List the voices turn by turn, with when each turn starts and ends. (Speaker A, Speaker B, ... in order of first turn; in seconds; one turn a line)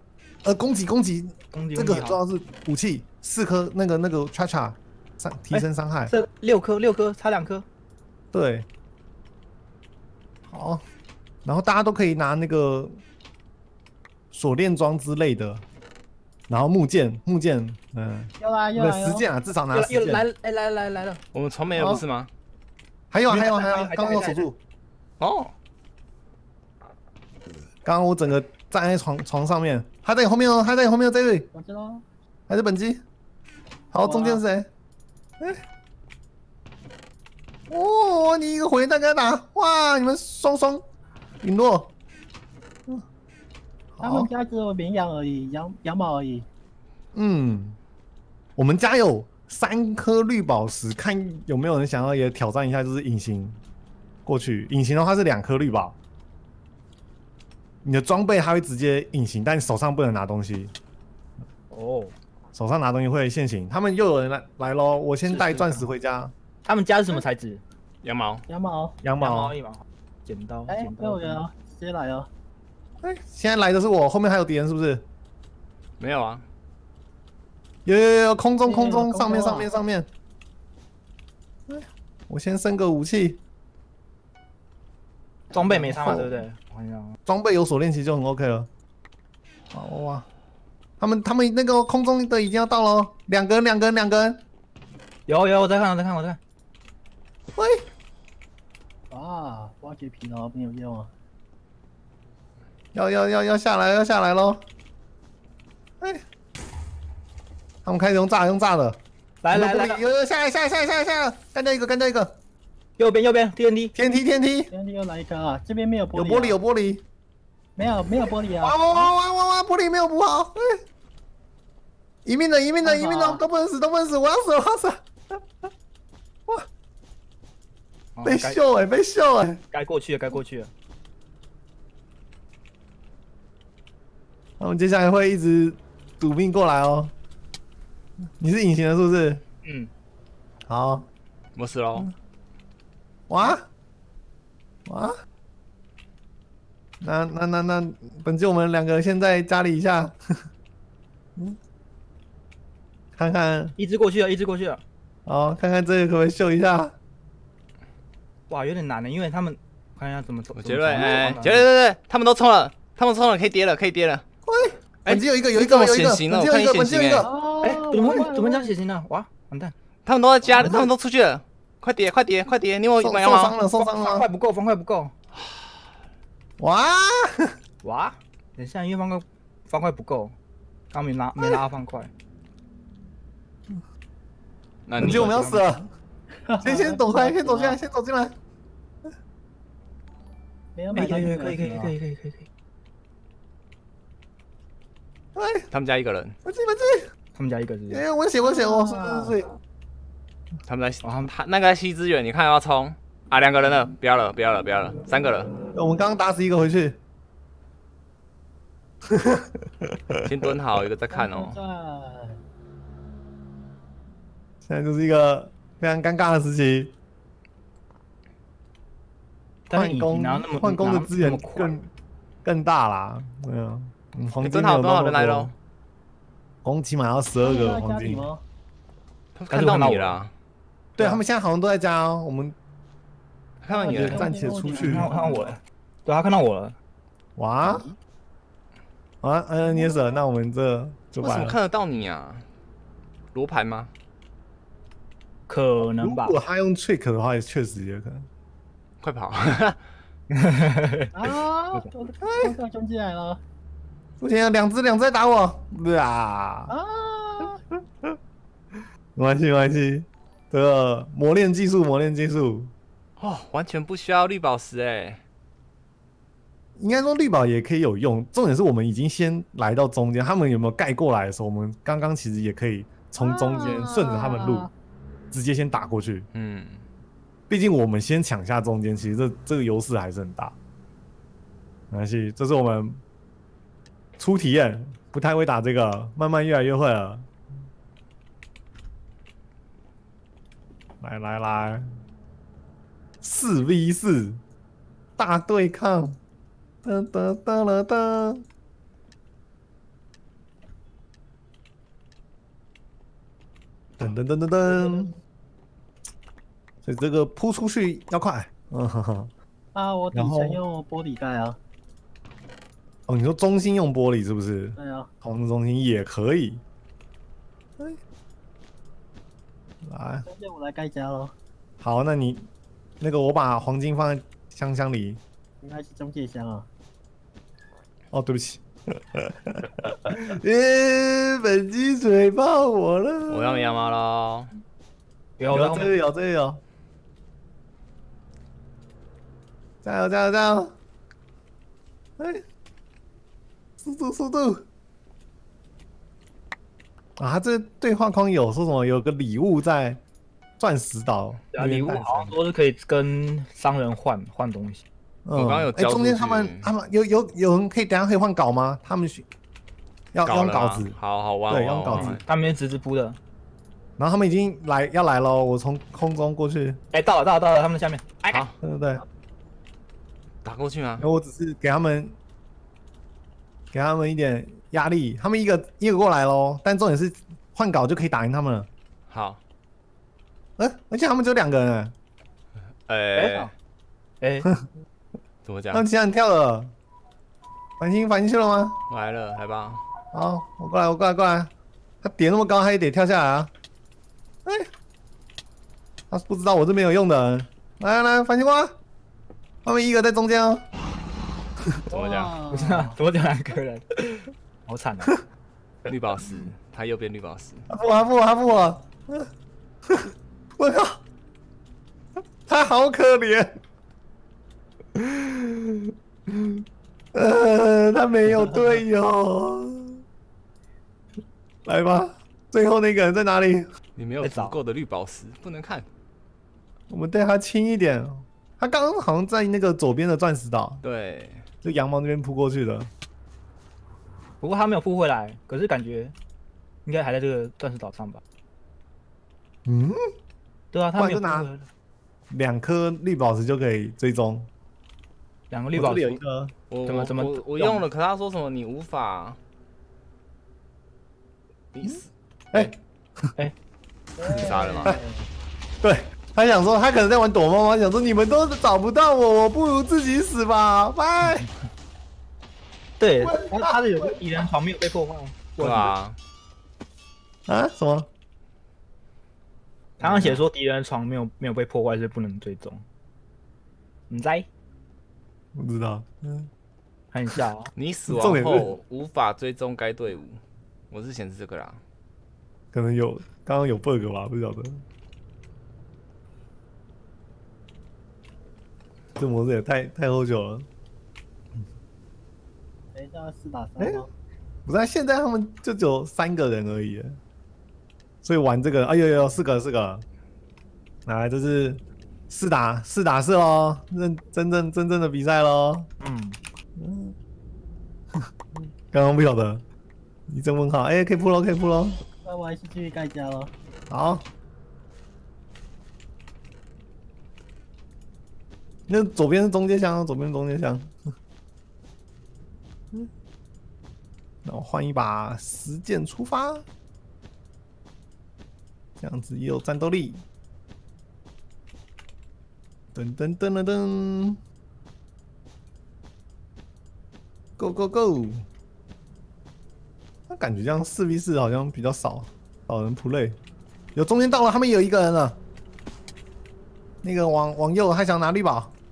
Speaker A: 0.4-6.1
Speaker B: 1.5-2.2
Speaker B: 5.5-7.6
Speaker A: 8.3-8.7
Speaker A: 10.5-10.8
Speaker A: 11.4-13.0
Speaker A: 14.3-15.6
Speaker A: 16.5-20.2
Speaker C: 18.4-19.2
Speaker B: 19.7-21.2
Speaker D: 21.3-22.3
Speaker A: 21.7-22.0
Speaker A: 23.1-24.6
Speaker B: 23.3-24.4
Speaker D: 25.2-25.5
Speaker A: 27.9-31.5
Speaker C: 31.5-32.0
Speaker A: 32.5-33.0
Speaker A: 33.9-34.7
Speaker C: 34.0-34.4
Speaker A: 37.7-40.8
Speaker A: 41.4-41.9
Speaker A: 43.9-44.3
Speaker C: 44.0-46.5
Speaker A: 47.1-47.8
Speaker A: 48.6-53.6
Speaker A: 54.2-56.0
Speaker A: 57.8-60.7
Speaker B: 61.7-62.1
Speaker A: 62.5-66.3
Speaker B: 65.3-65.9
Speaker B: 66.6-67.6
Speaker D: 68.0-68.4
Speaker C: 68.5-69.0
Speaker A: 69.0-69.6
Speaker B: 69.2-71.4
Speaker C: 70.7-72.3
Speaker A: 73.0-75.0
Speaker D: 76.0-76.5
Speaker A: 77.8-80.1
Speaker C: 78.6-79.7
Speaker A: 81.7-83.4
Speaker B: 85.5-87.1
Speaker A: 85.6-86.4
Speaker A: 87.2-88.7
Speaker A: 89.7-90.3
Speaker A: 91.0-94.4
Speaker B: 95.3-96.4
Speaker A: 97.6-97.8
Speaker C: 99.1-101.1
Speaker A: 102.9-104.6
Speaker A: 107.8-109.0
Speaker B: 109.4-110.0
Speaker A: 109.5-112.4
Speaker B: 113.0-113.9
Speaker A: 113.9-114.7
Speaker C: 114.7-116.6
Speaker A: 116.1-117.0
Speaker C: 117.8-119.1
Speaker A: 118.6-120.8
Speaker A: 122.2-125.1
Speaker B: 122.8-123.4
Speaker B: 128.2-128.6
Speaker A: 128.2-129.6
Speaker B: 129.7-130.7
Speaker A: 134.6-137.1
Speaker A: 138.4-139.4
Speaker B: 139.6-139.9
Speaker A: 140.7-141.1
Speaker D: 141.5-142.1
Speaker A: 143.3-143.6
Speaker A: 144.9-145.1
Speaker A: 147.0-150.2
Speaker A: 153.2-153.8
Speaker B: 153.8-154.8
Speaker A: 155.2-156.9
Speaker B: 158.5-161.7
Speaker D: 160.5-164.2
Speaker A: 164.4-167.3
Speaker D: 165.1-167.3
Speaker C: 167.2-168.7
Speaker B: 167.6-169.7
Speaker D: 170.0-173.6
Speaker B: 170.5-170.8
Speaker A: 170.6-170.9
Speaker A: 173.0-174.2
Speaker B: 173.8-175.1
Speaker A: 176.6-177.5
Speaker B: 177.8-180.3
Speaker B: 180.9-182.1
Speaker D: 184.9-185.4
Speaker A: 185.0-185.9
Speaker B: 185.0-185.7
Speaker C: 186.5-187.8
Speaker A: 186.6-188.4
Speaker C: 190.7-191.9
Speaker B: 190.9-192.5
Speaker A: 195.3-195.7
Speaker D: 195.7-196.4
Speaker A: 196.4-197.1
Speaker B: 197.3-198.0
Speaker A: 197.9-199.5
Speaker C: 198.4-199.3
Speaker D: 200.7-205.5
Speaker B: 201.0-201.3
Speaker A: 205.7-207.0
Speaker A: 209.1-210.2
Speaker D: 210.2-211.6
Speaker C: 211.1-212.4
Speaker A: 214.6-216.9
Speaker B: 219.7-221.7
Speaker A: 219.7-221.9
Speaker A: 222.4-225.5
Speaker D: 224.4-225.5
Speaker A: 226.6-228.3
Speaker C: 227.4-228.4
Speaker D: 229.3-230.3
Speaker B: 229.5-230.2
Speaker A: 231.0-232.5
Speaker D: 233.6-234.2
Speaker C: 233.7-235.6
Speaker A: 233.9-235.1
Speaker B: 234.1-236.8
Speaker A: 237.4-237.8
Speaker C: 237.6-238.0
Speaker A: 239.2-241.6
Speaker D: 241.2-242.5
Speaker D: 243.3-243.9
Speaker B: 245.5-246.4
Speaker A: 245.8-248.3
Speaker D: 249.0-249.8
Speaker B: 250.3-251.9
Speaker C: 251.1-253.4
Speaker A: 252.2-252.6
Speaker A: 254.2-256.7
Speaker C: 256.7-257.6
Speaker A: 259.1-262.7
Speaker D: 263.2-265.2
Speaker A: 266.8-274.7
Speaker C: 273.2-274.7
Speaker A: 275.3-276.3
Speaker D: 276.3-276.9
Speaker A: 277.5-280.6
Speaker A: 281.9-283.0
Speaker A: 284.2-287.3
Speaker A: 291.0-291.9
Speaker A: 293.2-294.4
Speaker A: 295.2-296.2
Speaker A: 296.8-298.4
Speaker A: 304.0-305.1
Speaker C: 304.7-305.1
Speaker A: 306.8-309.3
Speaker C: 309.7-311.6
Speaker A: 310.1-310.6
Speaker A: 313.1-316.6
Speaker C: 314.8-315.1
Speaker A: 319.8-320.3
Speaker C: 320.2-321.3
Speaker A: 321.8-322.5
Speaker A: 323.0-325.2
Speaker C: 325.6-326.7
Speaker A: 328.1-333.8
Speaker D: 333.3-334.5
Speaker B: 335.4-335.9
Speaker A: 335.5-336.6
Speaker A: 339.8-340.7
Speaker A: 343.8-344.6
Speaker A: 347.2-350.0
Speaker A: 350.6-352.4
Speaker B: 351.5-354.9
Speaker A: 355.2-359.2
Speaker D: 355.4-356.7
Speaker A: 360.1-360.9
Speaker D: 360.2-362.2
Speaker A: 361.5-362.2
Speaker B: 361.9-363.2
Speaker A: 364.0-366.8
Speaker B: 366.9-368.4
Speaker D: 368.3-368.6
Speaker A: 368.6-369.0
Speaker D: 370.4-371.0
Speaker A: 371.0-372.1
Speaker A: 373.7-378.7
Speaker D: 379.1-379.4
Speaker A: 380.6-381.9
Speaker D: 382.9-383.5
Speaker B: 383.1-383.5
Speaker B: 384.2-384.5
Speaker D: 385.4-385.9
Speaker A: 385.7-386.7
Speaker A: 387.8-388.8
Speaker D: 388.9-389.8
Speaker A: 390.1-391.5
Speaker A: 392.0-393.5
Speaker A: 396.1-398.7
Speaker A: 399.6-400.6
Speaker D: 401.9-402.4
Speaker C: 401.9-403.0
Speaker B: 402.5-405.2
Speaker D: 405.9-407.6
Speaker A: 407.7-409.3
Speaker A: 409.9-411.0
Speaker A: 412.5-413.6
Speaker A: 415.0-415.6
Speaker A: 416.3-416.6
Speaker A: 417.1-420.0
Speaker A: 421.6-423.7
Speaker D: 423.9-425.9
Speaker B: 424.2-424.6
Speaker A: 426.9-430.8
Speaker D: 430.8-431.4
Speaker A: 431.6-432.9
Speaker B: 434.4-436.1
Speaker B: 436.9-438.2
Speaker A: 439.6-440.1
Speaker B: 440.7-441.6
Speaker A: 441.0-441.5
Speaker A: 442.3-444.5
Speaker B: 445.5-446.2
Speaker A: 445.7-446.5
Speaker D: 446.7-449.4
Speaker B: 446.9-447.8
Speaker D: 451.7-452.7
Speaker C: 454.2-455.3
Speaker D: 454.2-455.0
Speaker A: 455.8-461.5
Speaker B: 463.0-465.9
Speaker A: 463.2-464.1
Speaker D: 465.6-466.2
Speaker A: 467.5-468.1
Speaker D: 470.0-470.4
Speaker B: 470.0-472.8
Speaker B: 474.1-474.5
Speaker A: 475.5-476.5
Speaker B: 477.1-477.7
Speaker D: 477.7-481.8
Speaker A: 478.1-478.7
Speaker A: 482.7-484.8
Speaker A: 489.2-490.7
Speaker C: 492.9-494.1
Speaker A: 493.8-494.0
Speaker A: 494.6-497.2
Speaker A: 498.2-500.0
Speaker A: 501.1-505.9
Speaker B: 506.0-506.4
Speaker A: 506.8-507.1
Speaker A: 508.9-509.6
Speaker A: 510.3-512.0
Speaker C: 512.2-513.5
Speaker A: 513.9-514.2
Speaker A: 518.9-520.9
Speaker A: 524.4-526.6
Speaker A: 529.0-530.2
Speaker A: 532.9-534.4
Speaker A: 537.6-538.5
Speaker A: 540.3-543.4
Speaker A: 543.9-545.4
Speaker A: 547.0-548.7